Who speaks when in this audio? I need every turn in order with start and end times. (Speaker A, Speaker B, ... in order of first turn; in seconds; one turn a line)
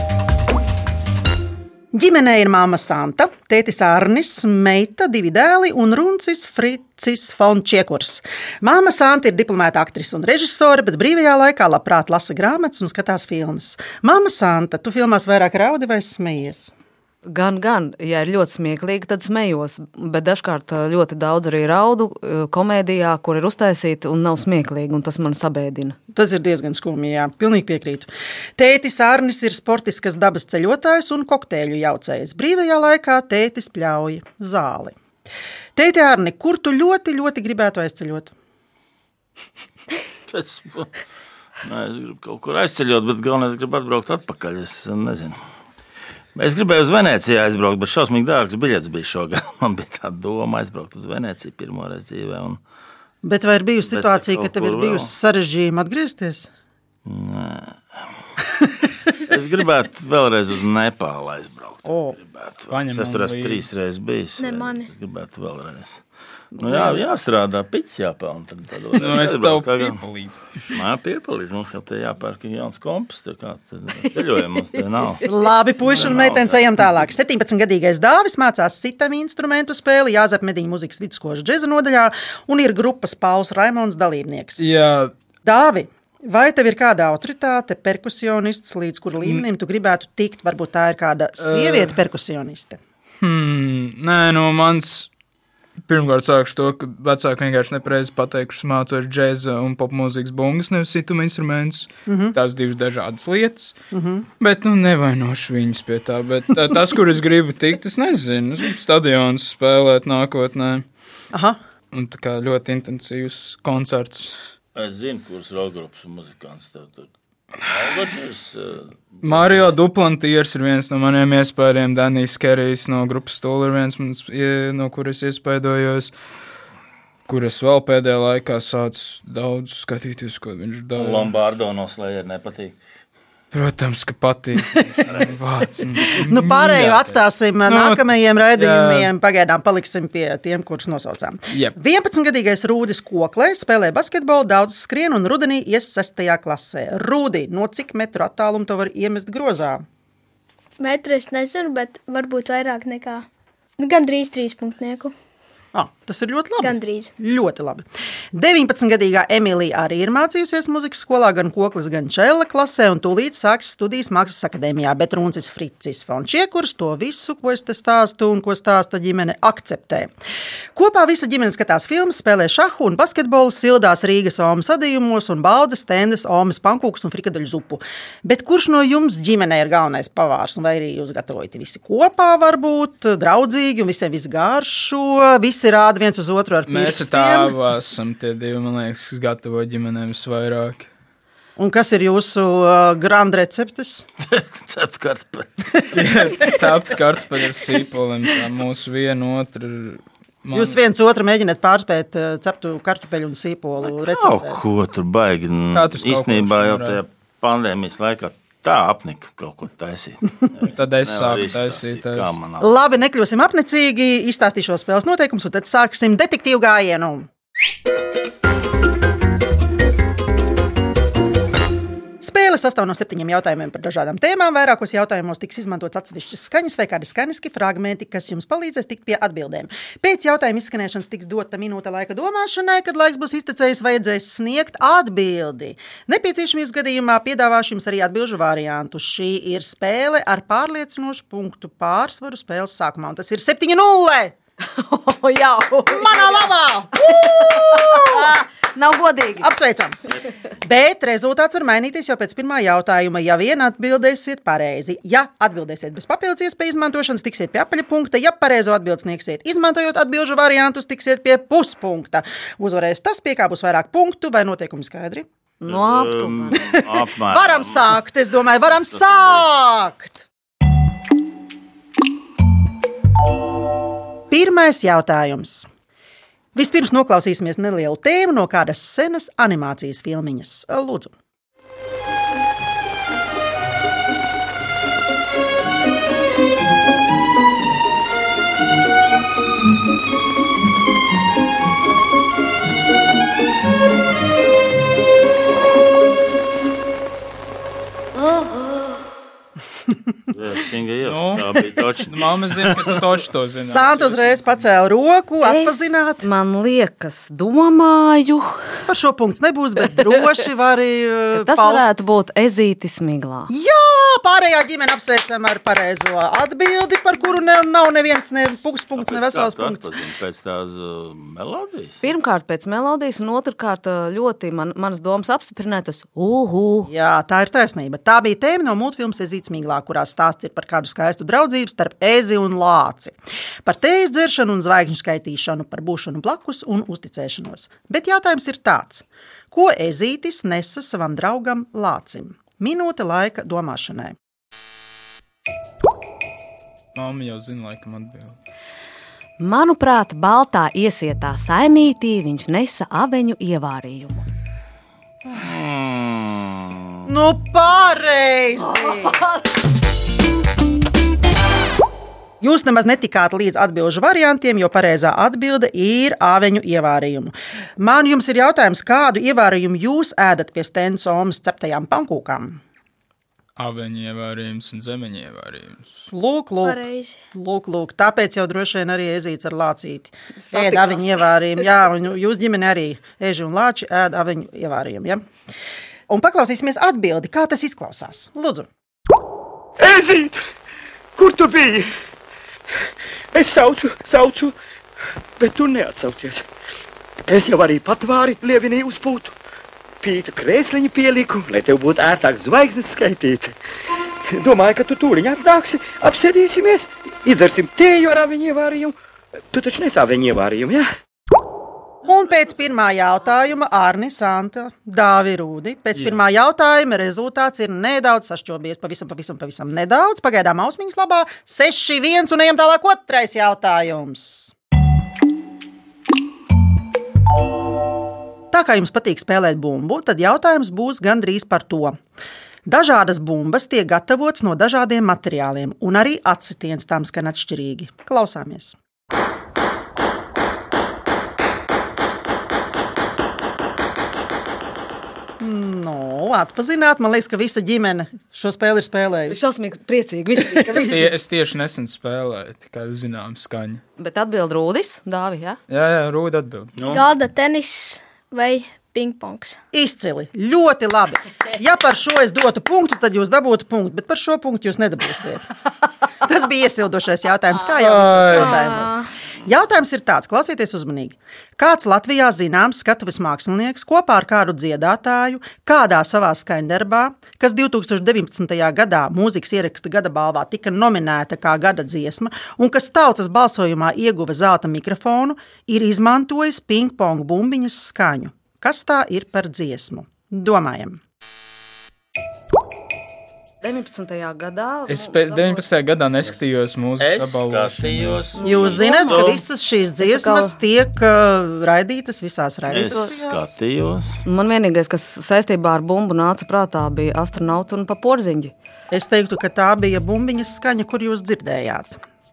Speaker A: 1.9-16.7
Speaker B: 17.2-25.9
Speaker A: 26.1-34.9
Speaker A: 35.8-38.3
Speaker C: 40.3-40.9
Speaker C: 41.6-45.4
Speaker C: 46.3-52.6
Speaker A: 53.2-56.5
Speaker C: 53.8-55.1
Speaker C: 57.0-57.8
Speaker C: 59.3-66.0
Speaker A: 61.8-62.2
Speaker D: 62.7-63.6
Speaker E: 64.4-64.9
Speaker A: 66.5-67.1
Speaker C: 66.6-70.0
Speaker D: 69.0-70.4
Speaker C: 70.7-75.2
Speaker A: 75.2-84.6
Speaker C: 75.8-76.7
Speaker D: 84.6-85.1
Speaker A: 85.4-92.8
Speaker D: 91.4-92.0
Speaker D: 93.2-95.1
Speaker D: 95.8-103.7
Speaker A: 102.1-102.3
Speaker A: 103.9-104.3
Speaker D: 104.4-110.8
Speaker A: 111.3-111.6
Speaker D: 111.9-114.4
Speaker C: 114.7-119.6
Speaker D: 119.2-126.1
Speaker D: 127.3-131.3
Speaker C: 130.9-132.8
Speaker D: 133.5-139.1
Speaker A: 136.1-149.8
Speaker D: 141.5-141.8
Speaker E: 150.8-153.3
Speaker E: 153.8-155.1
Speaker A: 155.7-170.1
Speaker E: 156.6-157.1
Speaker A: 170.7-187.5
Speaker D: 186.7-190.9
Speaker A: 191.6-194.1
Speaker C: 194.2-195.8
Speaker D: 195.9-200.8
Speaker A: 200.5-204.6
Speaker C: 203.8-212.7
Speaker D: 205.7-207.0
Speaker D: 210.7-212.4
Speaker A: 212.6-217.3
Speaker A: 222.2-244.3
Speaker B: 244.7-249.5
Speaker A: 245.9-248.3
Speaker A: 249.4-250.0
Speaker A: 250.6-265.2
Speaker B: 265.6-266.6
Speaker C: 265.6-268.0
Speaker A: 266.6-270.2
Speaker C: 268.7-269.4
Speaker A: 274.3-275.7
Speaker A: 276.5-281.1
Speaker C: 300.3-303.1
Speaker D: 301.0-304.6
Speaker A: 303.5-306.2
Speaker B: 305.4-308.9
Speaker A: 308.9-311.9
Speaker B: 311.3-313.5
Speaker A: 313.5-319.9
Speaker C: 318.9-322.0
Speaker B: 322.0-326.9
Speaker A: 326.9-344.1
Speaker D: 346.9-348.3
Speaker B: 349.4-354.2
Speaker C: 355.4-356.9
Speaker A: 357.1-359.2
Speaker B: 358.6-359.4
Speaker A: 362.4-372.6
Speaker D: 373.6-376.1
Speaker A: 376.1-385.2
Speaker E: 376.6-377.2
Speaker B: 380.4-381.2
Speaker A: 386.1-388.7
Speaker F: 389.8-390.4
Speaker F: 391.2-391.9
Speaker F: 393.3-394.5
Speaker F: 395.4-396.4
Speaker F: 397.3-399.3
Speaker F: 400.0-403.6
Speaker F: 404.3-408.9
Speaker F: 409.5-410.9
Speaker A: 412.0-424.5
Speaker A: 428.5-432.0
Speaker A: 432.6-438.7
Speaker A: 445.4-449.4
Speaker B: 449.3-451.0
Speaker A: 450.4-451.0
Speaker D: 450.8-453.8
Speaker B: 454.0-455.6
Speaker D: 455.7-456.7
Speaker C: 456.8-457.0
Speaker E: 456.9-459.6
Speaker A: 459.7-465.4
Speaker A: 466.2-491.0
Speaker D: 467.8-468.6
Speaker B: 493.6-495.7
Speaker D: 494.9-498.2
Speaker C: 497.0-499.4
Speaker B: 498.4-499.2
Speaker A: 498.4-503.5
Speaker B: 500.0-500.6
Speaker C: 502.7-504.2
Speaker B: 502.7-503.1
Speaker B: 504.2-508.5
Speaker A: 508.9-512.0